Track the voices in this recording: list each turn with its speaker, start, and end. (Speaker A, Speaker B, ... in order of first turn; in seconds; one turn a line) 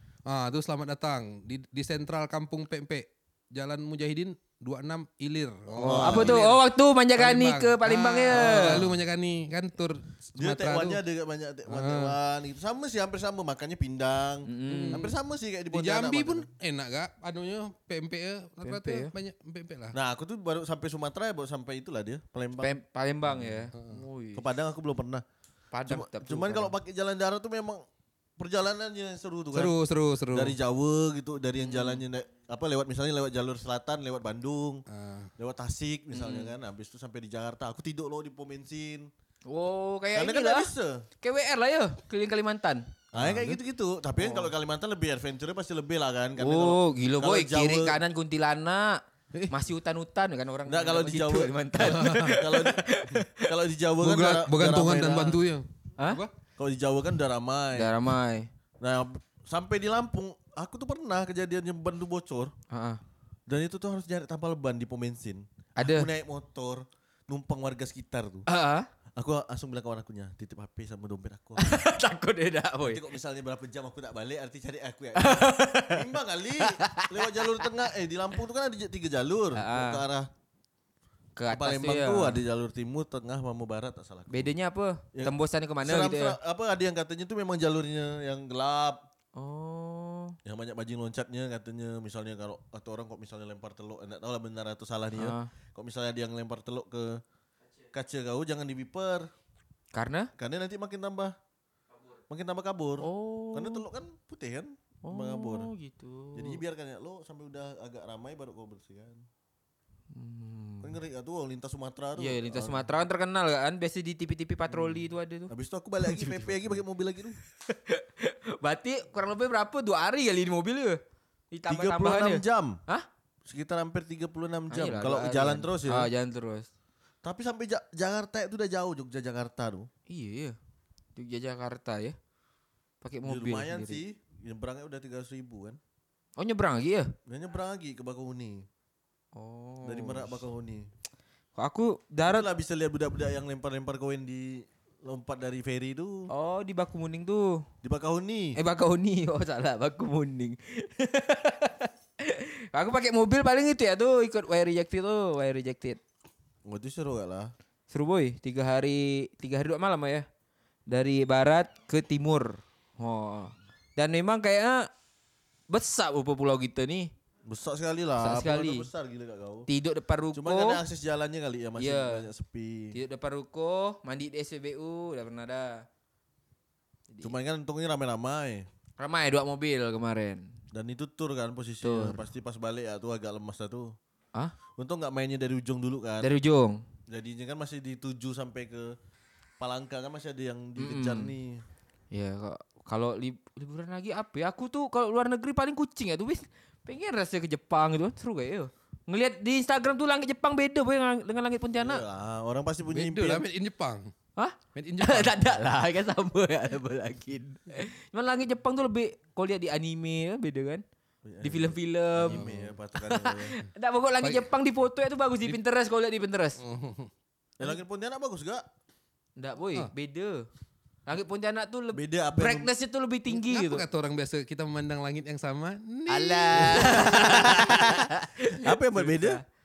Speaker A: 0.2-6.6
Speaker B: 5.7-6.4
Speaker C: 5.8-8.8
Speaker A: 7.1-11.0
Speaker B: 8.5-8.9
Speaker B: 10.3-16.5
Speaker A: 11.7-12.2
Speaker C: 14.4-15.0
Speaker A: 14.7-15.1
Speaker A: 15.7-19.9
Speaker C: 18.6-19.1
Speaker B: 19.9-22.7
Speaker C: 22.6-24.4
Speaker A: 23.7-24.0
Speaker B: 24.3-25.2
Speaker C: 25.7-26.7
Speaker B: 25.9-27.8
Speaker B: 28.4-29.7
Speaker A: 29.5-30.6
Speaker B: 30.3-34.8
Speaker C: 31.6-32.0
Speaker A: 34.9-35.3
Speaker B: 35.4-39.1
Speaker C: 36.1-36.5
Speaker C: 39.5-40.7
Speaker B: 40.1-41.0
Speaker C: 41.2-42.8
Speaker B: 43.1-48.0
Speaker A: 43.1-43.6
Speaker C: 44.2-44.5
Speaker C: 46.4-53.5
Speaker B: 50.7-52.9
Speaker A: 51.8-52.4
Speaker B: 53.4-55.4
Speaker A: 54.0-56.3
Speaker B: 56.6-58.0
Speaker C: 57.7-58.5
Speaker B: 58.8-62.5
Speaker C: 62.7-63.0
Speaker B: 63.5-68.5
Speaker C: 65.8-66.1
Speaker C: 68.5-68.9
Speaker B: 69.2-71.8
Speaker C: 71.6-73.0
Speaker B: 72.8-80.3
Speaker C: 75.1-76.0
Speaker C: 76.6-77.7
Speaker C: 79.5-80.0
Speaker C: 81.3-82.4
Speaker B: 81.5-84.5
Speaker C: 84.3-86.4
Speaker B: 85.1-89.0
Speaker C: 89.3-90.4
Speaker B: 90.4-97.2
Speaker C: 95.1-95.5
Speaker B: 97.9-99.3
Speaker C: 99.9-100.3
Speaker B: 100.4-101.3
Speaker B: 102.3-105.7
Speaker C: 103.0-103.8
Speaker C: 105.0-106.6
Speaker B: 106.3-109.2
Speaker C: 110.1-110.9
Speaker B: 110.8-112.9
Speaker C: 112.2-115.5
Speaker B: 114.7-117.4
Speaker C: 116.0-116.7
Speaker C: 117.7-121.0
Speaker C: 121.5-123.0
Speaker B: 121.7-122.8
Speaker B: 123.4-126.1
Speaker C: 124.7-126.7
Speaker B: 127.2-129.9
Speaker C: 130.1-130.6
Speaker C: 131.2-132.2
Speaker C: 133.0-134.0
Speaker B: 133.2-135.8
Speaker C: 136.4-137.1
Speaker B: 137.3-138.7
Speaker C: 139.3-140.4
Speaker B: 139.8-140.9
Speaker C: 141.6-142.5
Speaker B: 142.2-146.3
Speaker C: 146.3-147.6
Speaker B: 147.8-148.6
Speaker C: 148.6-156.0
Speaker B: 156.6-157.5
Speaker C: 157.9-160.2
Speaker C: 160.9-164.9
Speaker C: 165.7-167.1
Speaker B: 167.5-169.7
Speaker C: 168.2-168.9
Speaker C: 169.7-170.8
Speaker B: 170.3-172.9
Speaker C: 171.8-172.3
Speaker C: 172.9-175.8
Speaker B: 177.2-178.7
Speaker C: 179.0-180.5
Speaker B: 180.7-183.9
Speaker C: 181.8-182.2
Speaker B: 184.8-186.3
Speaker C: 186.2-186.8
Speaker B: 187.1-188.9
Speaker B: 189.6-191.6
Speaker C: 190.8-191.3
Speaker C: 192.1-202.0
Speaker B: 201.8-203.4
Speaker A: 202.9-204.1
Speaker C: 204.4-210.8
Speaker A: 204.7-205.4
Speaker B: 211.2-213.5
Speaker C: 211.4-216.6
Speaker A: 212.3-212.7
Speaker A: 214.2-214.5
Speaker A: 216.6-217.1
Speaker B: 217.6-218.6
Speaker C: 219.4-220.5
Speaker C: 221.1-223.8
Speaker B: 221.9-222.7
Speaker A: 223.3-227.8
Speaker C: 226.1-229.4
Speaker B: 226.5-229.4